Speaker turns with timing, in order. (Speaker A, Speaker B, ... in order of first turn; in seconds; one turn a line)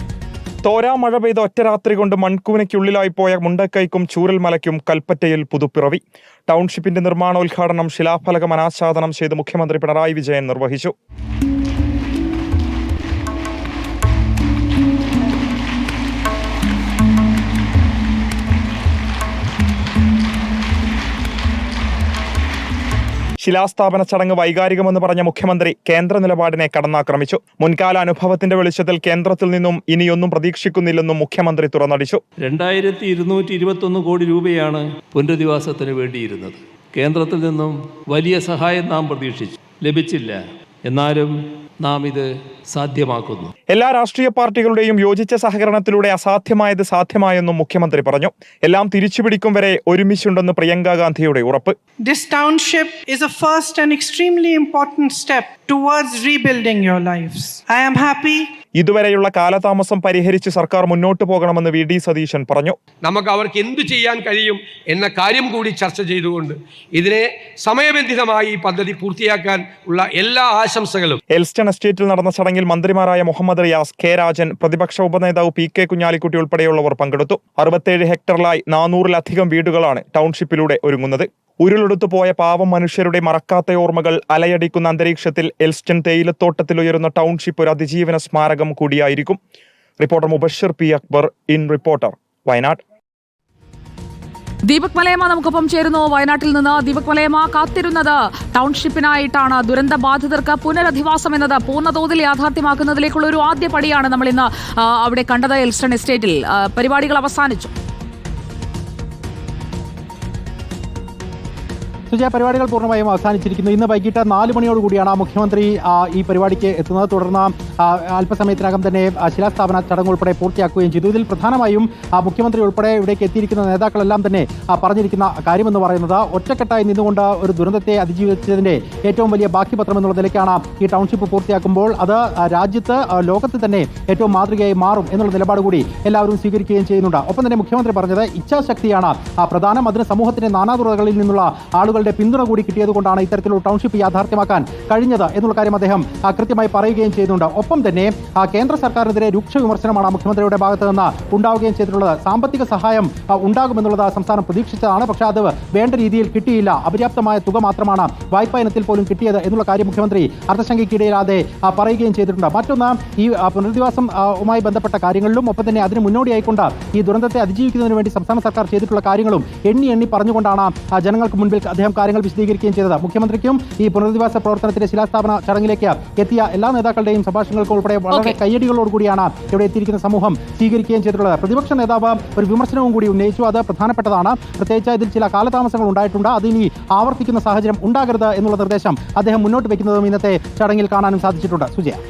Speaker A: 0.6-10.9
Speaker A: 23.4-32.2
Speaker B: 32.4-43.5
Speaker A: 43.7-51.8
Speaker C: 52.0-58.5
Speaker A: 58.8-62.8
Speaker D: 63.0-71.2
Speaker A: 71.3-89.4
Speaker A: 90.0-92.8
Speaker E: 94.7-107.7
Speaker F: 112.1-192.0